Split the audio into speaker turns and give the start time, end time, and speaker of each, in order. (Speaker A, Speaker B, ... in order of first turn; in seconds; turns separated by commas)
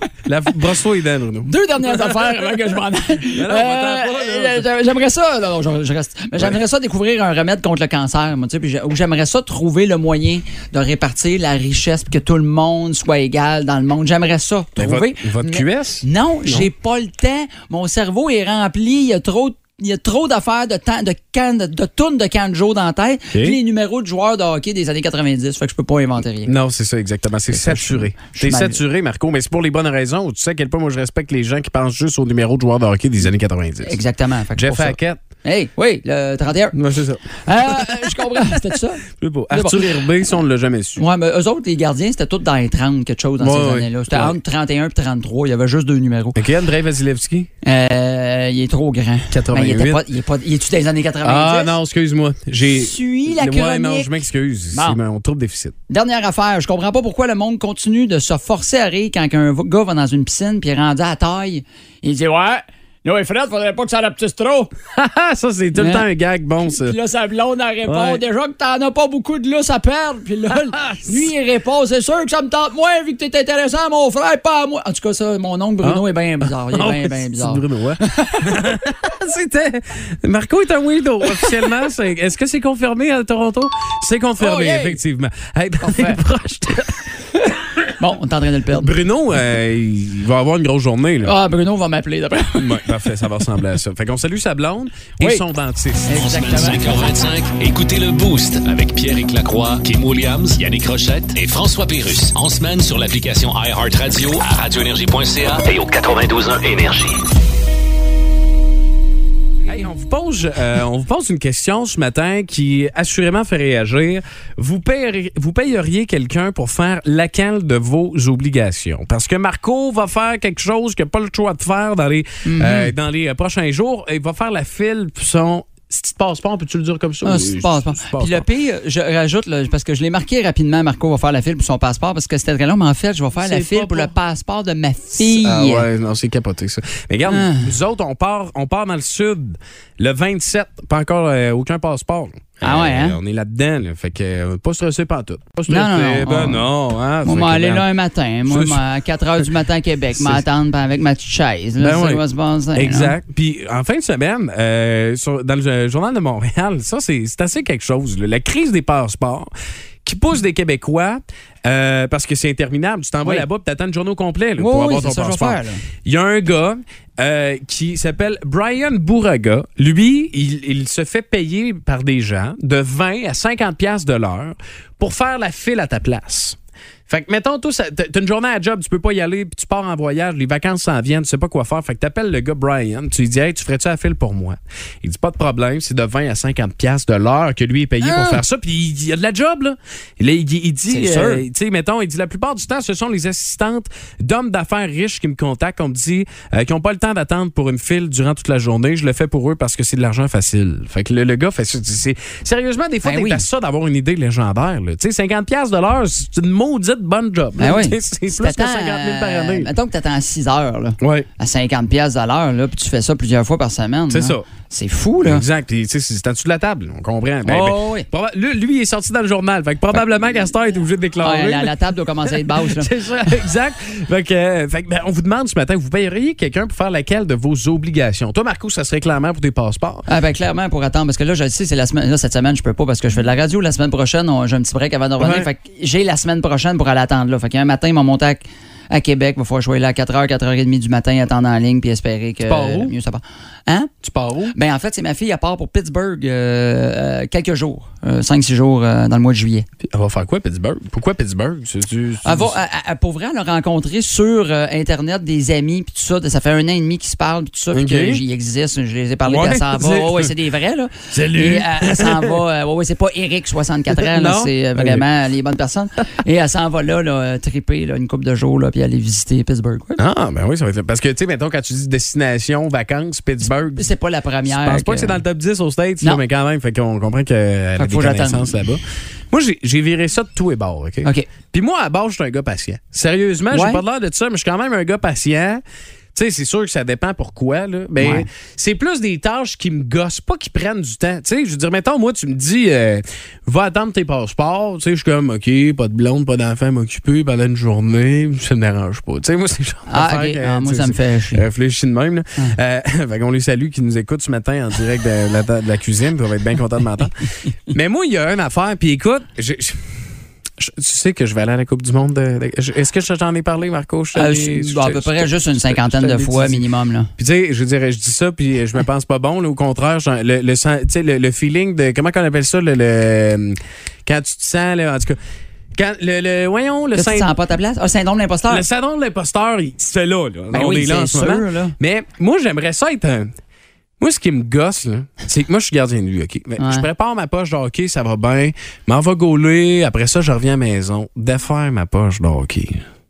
Speaker A: 0.2-2.4, Speaker B: 1.4-26.5, Speaker A: 3.3-4.7, Speaker A: 14.8-16.7, Speaker A: 23.3-23.6, Speaker A: 26.4-34.0, Speaker B: 27.5-28.8, Speaker B: 33.8-36.8, Speaker A: 34.5-35.2, Speaker A: 36.7-38.1, Speaker B: 37.4-39.9, Speaker A: 39.1-41.0, Speaker B: 41.0-46.4, Speaker A: 43.4-44.4, Speaker A: 46.3-47.5, Speaker B: 47.6-51.7, Speaker A: 49.3-50.0, Speaker A: 51.2-55.8, Speaker B: 52.7-54.1, Speaker B: 54.7-55.0, Speaker B: 55.9-64.7, Speaker A: 64.9-67.0, Speaker B: 65.7-66.0, Speaker B: 66.7-78.8, Speaker A: 67.8-68.2, Speaker A: 70.5-71.3, Speaker A: 75.8-87.1, Speaker B: 84.4-85.0, Speaker B: 85.8-86.2, Speaker B: 88.0-88.9, Speaker A: 88.7-91.3, Speaker B: 91.2-93.1, Speaker A: 92.5-96.8, Speaker B: 95.2-95.4, Speaker B: 96.0-97.2, Speaker C: 96.2-107.3, Speaker A: 109.6-128.4, Speaker B: 122.4-122.9, Speaker B: 127.2-135.9, Speaker A: 133.4-134.1, Speaker A: 135.2-147.9, Speaker B: 137.3-137.7, Speaker B: 142.6-143.2, Speaker B: 145.7-146.7, Speaker B: 147.2-153.1, Speaker A: 148.5-148.8, Speaker A: 150.1-150.4, Speaker A: 151.8-152.2, Speaker A: 152.7-159.5, Speaker A: 160.0-209.7, Speaker B: 164.6-165.9, Speaker B: 188.0-188.4, Speaker B: 190.9-191.4, Speaker B: 203.0-203.4, Speaker B: 207.6-215.4, Speaker A: 211.0-211.3, Speaker A: 214.1-214.5, Speaker A: 215.2-230.1, Speaker B: 217.4-218.1, Speaker B: 221.2-222.9, Speaker B: 230.1-243.9, Speaker A: 235.2-235.5, Speaker A: 242.4-242.9, Speaker A: 244.0-244.5, Speaker B: 244.5-249.7, Speaker A: 249.8-252.6, Speaker B: 252.2-270.0, Speaker A: 257.7-258.2, Speaker A: 259.2-260.3, Speaker A: 261.1-262.4, Speaker A: 263.9-265.1, Speaker A: 270.0-273.9, Speaker B: 273.8-275.2, Speaker A: 274.4-285.6, Speaker B: 277.8-278.6, Speaker B: 283.5-283.8, Speaker A: 286.1-310.0, Speaker B: 288.0-288.3, Speaker B: 299.9-301.4, Speaker A: 310.6-316.6, Speaker B: 314.1-317.1, Speaker A: 317.2-325.2, Speaker A: 325.7-327.3, Speaker B: 326.9-328.6, Speaker A: 328.5-333.3, Speaker B: 330.5-331.7, Speaker A: 334.0-342.8, Speaker B: 336.6-336.9